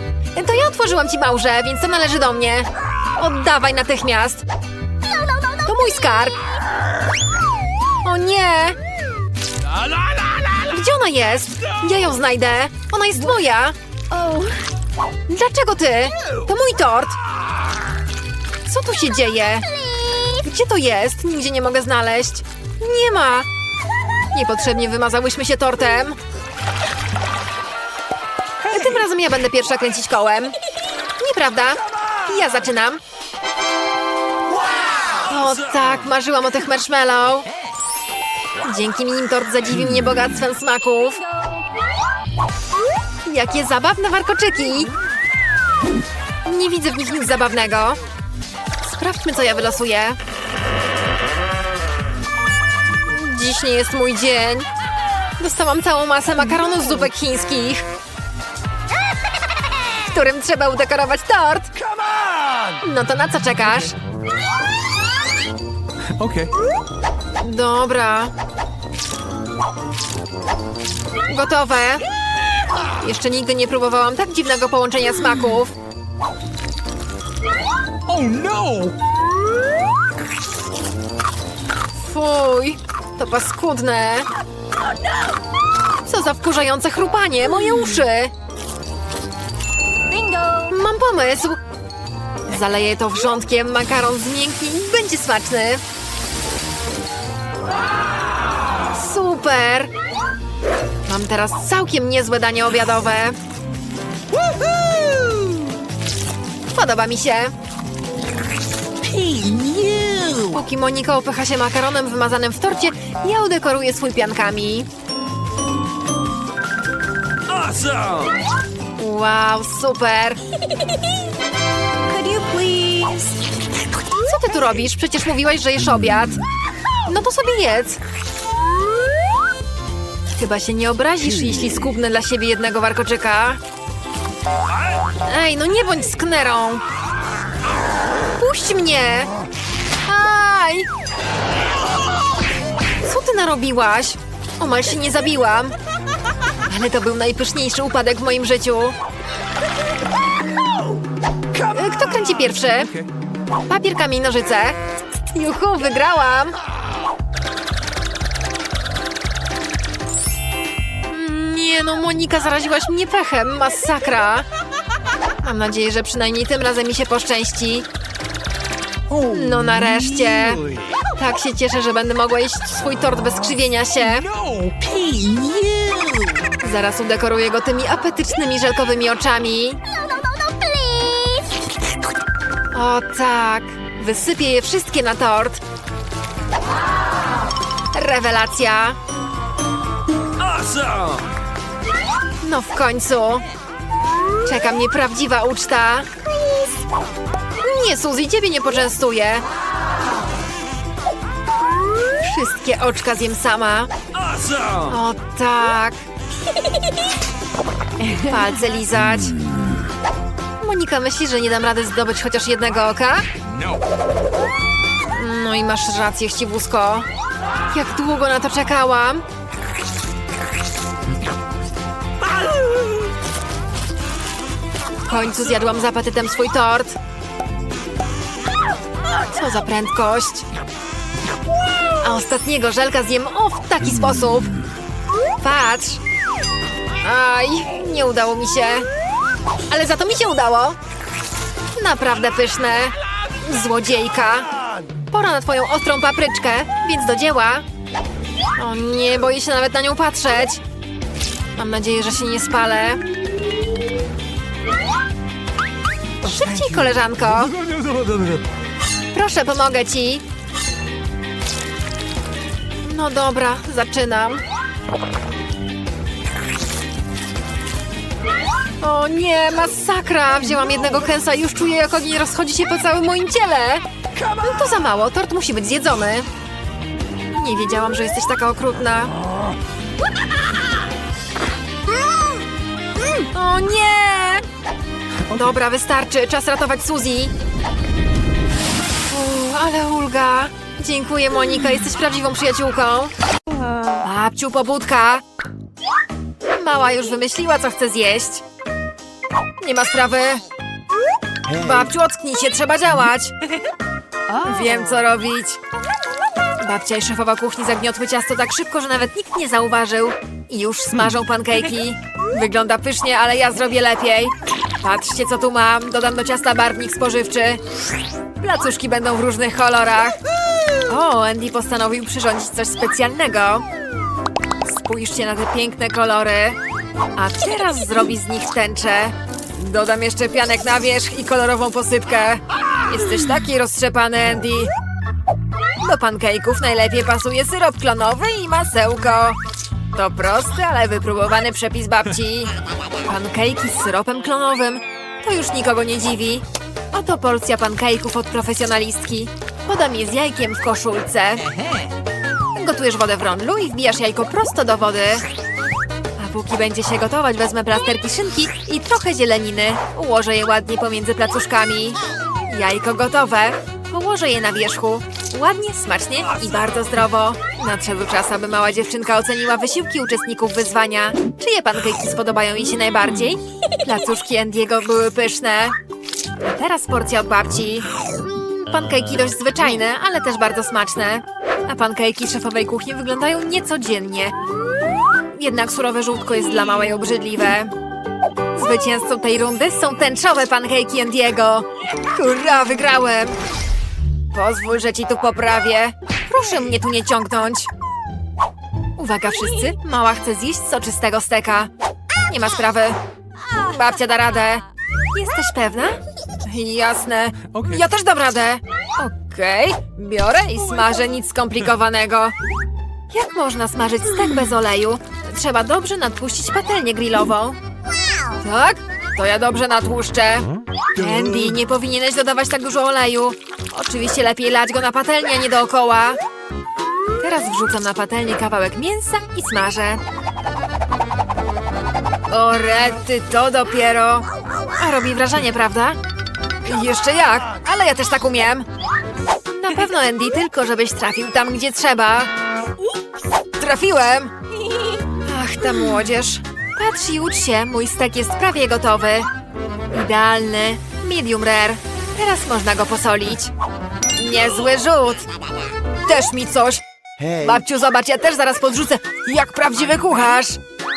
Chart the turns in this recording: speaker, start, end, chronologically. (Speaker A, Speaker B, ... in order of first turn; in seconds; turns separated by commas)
Speaker A: 0.3-4.4, Speaker B: 5.1-5.6, Speaker A: 5.6-6.4, Speaker A: 8.0-8.8, Speaker C: 9.7-10.6, Speaker A: 10.6-13.8, Speaker B: 14.1-14.6, Speaker A: 15.3-17.2, Speaker A: 18.6-19.7, Speaker A: 20.3-23.5, Speaker A: 24.3-26.2, Speaker C: 28.6-29.0, Speaker A: 28.7-30.6, Speaker A: 31.2-33.0, Speaker C: 34.7-35.1, Speaker A: 35.2-37.5, Speaker A: 38.6-41.2, Speaker A: 43.2-44.9, Speaker A: 46.4-48.0, Speaker A: 48.8-50.2, Speaker A: 53.0-54.7, Speaker A: 55.4-57.9, Speaker A: 60.0-61.7, Speaker C: 61.8-62.8, Speaker A: 62.8-64.0, Speaker C: 66.1-66.5, Speaker A: 67.4-68.3, Speaker A: 71.3-72.0, Speaker A: 73.0-75.7, Speaker C: 78.0-79.0, Speaker A: 82.0-84.3, Speaker A: 86.0-88.3, Speaker B: 90.1-90.7, Speaker A: 90.7-91.6, Speaker A: 92.5-95.8, Speaker A: 98.9-99.9, Speaker A: 101.1-103.4, Speaker C: 104.3-105.6, Speaker A: 106.7-107.5, Speaker C: 109.0-110.6, Speaker A: 110.5-114.9, Speaker C: 117.5-118.4, Speaker A: 119.0-120.4, Speaker B: 122.1-123.4, Speaker A: 124.2-126.4, Speaker A: 127.1-128.0, Speaker A: 130.4-133.6, Speaker A: 135.2-136.8, Speaker A: 138.3-139.3, Speaker A: 140.0-140.9, Speaker A: 143.0-145.7, Speaker A: 146.7-148.9, Speaker C: 151.5-153.1, Speaker A: 151.7-152.9, Speaker A: 153.7-154.8, Speaker A: 155.3-156.6, Speaker A: 161.1-164.5, Speaker A: 165.4-167.8, Speaker C: 169.1-171.0, Speaker A: 169.2-170.6, Speaker A: 171.2-174.3, Speaker C: 174.0-176.5, Speaker A: 176.6-179.8, Speaker B: 180.1-181.5, Speaker A: 182.7-185.6, Speaker A: 187.9-189.0, Speaker C: 190.4-191.3, Speaker A: 192.4-193.4, Speaker A: 194.4-196.1, Speaker A: 197.6-199.4, Speaker A: 202.2-203.9, Speaker C: 204.1-205.0, Speaker A: 204.9-206.0, Speaker A: 208.1-209.3, Speaker A: 210.6-213.3, Speaker C: 213.4-213.8, Speaker A: 215.1-217.1, Speaker A: 217.7-219.2, Speaker A: 225.0-227.0, Speaker A: 229.3-230.5, Speaker A: 232.0-234.5, Speaker A: 235.4-236.0, Speaker A: 237.0-238.9, Speaker A: 239.7-240.8, Speaker A: 241.7-244.5, Speaker A: 245.1-247.6, Speaker A: 248.6-250.6, Speaker A: 251.6-253.0, Speaker A: 256.2-257.5, Speaker C: 256.2-258.4, Speaker A: 259.1-260.2, Speaker A: 262.8-264.4, Speaker A: 268.8-276.3, Speaker A: 277.3-279.1, Speaker A: 283.3-284.5, Speaker A: 285.3-287.3, Speaker A: 289.1-293.1, Speaker A: 294.0-295.2, Speaker A: 296.5-298.4, Speaker A: 299.6-300.4, Speaker A: 301.5-303.3, Speaker B: 304.3-305.1, Speaker A: 304.4-305.6, Speaker A: 306.6-317.6, Speaker A: 318.4-320.2, Speaker A: 320.9-323.6, Speaker A: 324.6-326.6, Speaker A: 327.1-334.7, Speaker A: 335.8-339.4, Speaker A: 339.9-342.5, Speaker A: 343.0-351.5, Speaker C: 351.4-351.9, Speaker A: 352.5-355.3, Speaker A: 356.2-375.8, Speaker A: 376.4-384.3, Speaker A: 385.3-387.7, Speaker A: 388.5-393.4, Speaker A: 394.3-397.7, Speaker A: 399.0-401.7, Speaker A: 402.3-403.0, Speaker A: 403.6-412.3, Speaker C: 407.5-407.8, Speaker A: 413.1-417.6, Speaker A: 418.4-426.2, Speaker A: 427.2-430.0, Speaker A: 432.3-434.3, Speaker A: 434.8-436.0, Speaker A: 436.6-438.7, Speaker A: 439.5-442.3, Speaker A: 443.6-444.3, Speaker B: 444.7-445.0, Speaker A: 445.2-449.3, Speaker A: 449.9-453.5, Speaker A: 454.1-455.3, Speaker A: 456.0-460.6